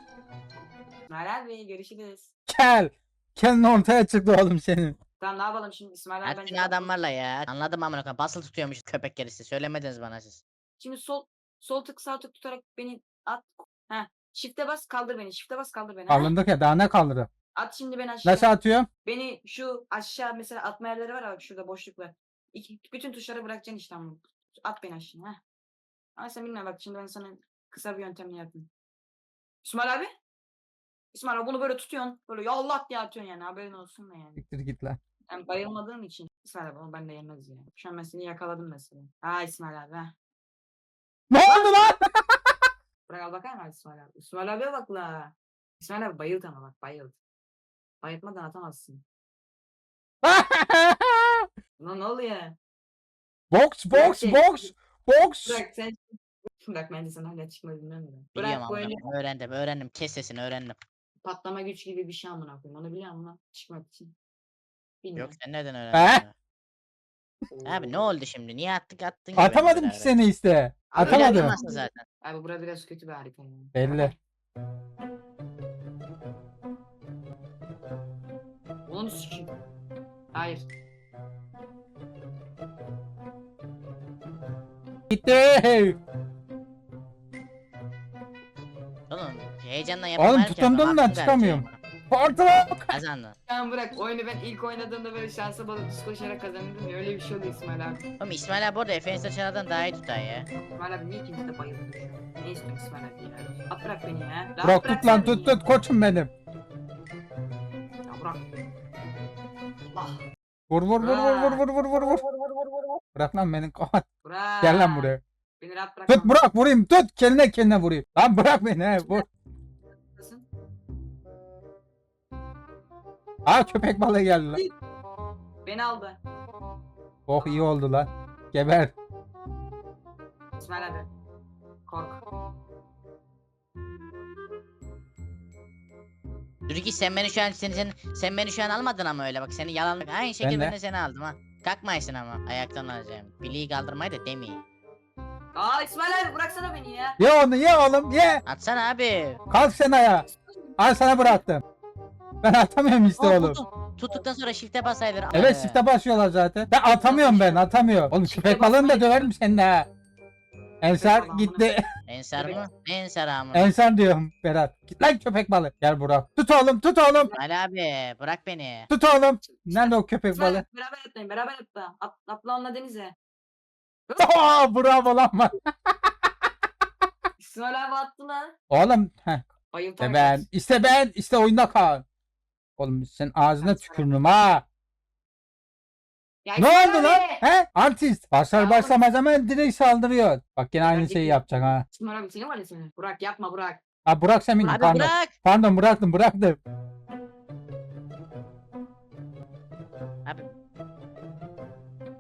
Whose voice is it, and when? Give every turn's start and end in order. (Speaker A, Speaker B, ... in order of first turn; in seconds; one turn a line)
Speaker A: 1.1-2.3
Speaker B: 2.5-5.0
Speaker A: 5.2-6.9
Speaker C: 6.2-10.4
Speaker A: 10.8-16.3
Speaker B: 16.1-17.3
Speaker A: 17.5-18.5
Speaker B: 18.2-18.9
Speaker A: 19.0-25.4
Speaker A: 26.2-28.7
Speaker A: 29.6-30.1
Speaker A: 31.1-34.4
Speaker B: 34.4-35.0
Speaker A: 35.3-40.1
Speaker B: 41.3-42.4
Speaker A: 41.4-41.9
Speaker A: 43.1-47.2
Speaker A: 48.0-49.0
Speaker B: 50.2-51.5
Speaker A: 51.8-52.6
Speaker B: 53.5-55.6
Speaker A: 53.9-54.7
Speaker A: 55.5-59.0
Speaker C: 58.4-60.8
Speaker A: 61.2-64.1
Speaker A: 65.0-65.4
Speaker C: 65.2-66.3
Speaker B: 65.9-66.2
Speaker A: 67.5-68.0
Speaker C: 67.7-70.2
Speaker B: 69.3-71.5
Speaker A: 70.9-74.2
Speaker C: 71.0-72.0
Speaker B: 73.8-74.1
Speaker A: 78.9-79.5
Speaker A: 80.3-80.7
Speaker B: 85.1-86.0
Speaker C: 89.1-91.8
Speaker B: 90.2-92.9
Speaker C: 92.9-93.4
Speaker A: 93.5-98.0
Speaker C: 98.2-100.5
Speaker A: 100.7-105.6
Speaker B: 104.6-106.3
Speaker A: 108.1-108.4
Speaker A: 109.9-110.2
Speaker B: 110.7-112.2
Speaker A: 111.0-111.7
Speaker B: 113.2-114.1
Speaker A: 114.2-116.4
Speaker B: 114.6-115.2
Speaker B: 116.1-119.2
Speaker A: 120.0-120.5
Speaker B: 123.5-124.6
Speaker A: 125.7-126.2
Speaker B: 127.3-128.9
Speaker A: 127.4-127.7
Speaker A: 130.6-131.1
Speaker A: 131.9-132.2
Speaker C: 136.7-144.6
Speaker B: 140.4-140.8
Speaker A: 145.6-147.2
Speaker B: 147.2-148.4
Speaker C: 148.5-149.4
Speaker B: 149.5-150.3
Speaker B: 150.8-151.6
Speaker B: 152.4-153.6
Speaker C: 153.2-155.8
Speaker B: 155.3-159.9
Speaker A: 156.9-157.7
Speaker A: 158.2-159.3
Speaker B: 160.8-161.8
Speaker A: 160.9-161.7
Speaker C: 162.1-163.7
Speaker B: 163.5-167.3
Speaker C: 167.4-168.9
Speaker B: 168.9-170.6
Speaker A: 169.4-173.2
Speaker A: 174.1-174.6
Speaker B: 174.2-176.3
Speaker A: 177.4-178.6
Speaker B: 178.7-179.5
Speaker A: 179.7-180.5
Speaker B: 180.0-182.0
Speaker B: 182.8-184.6
Speaker A: 183.6-184.1
Speaker A: 186.4-187.4
Speaker B: 186.6-191.8
Speaker A: 188.5-189.0
Speaker A: 190.8-193.8
Speaker B: 194.1-196.6
Speaker A: 194.6-194.9
Speaker C: 194.7-195.3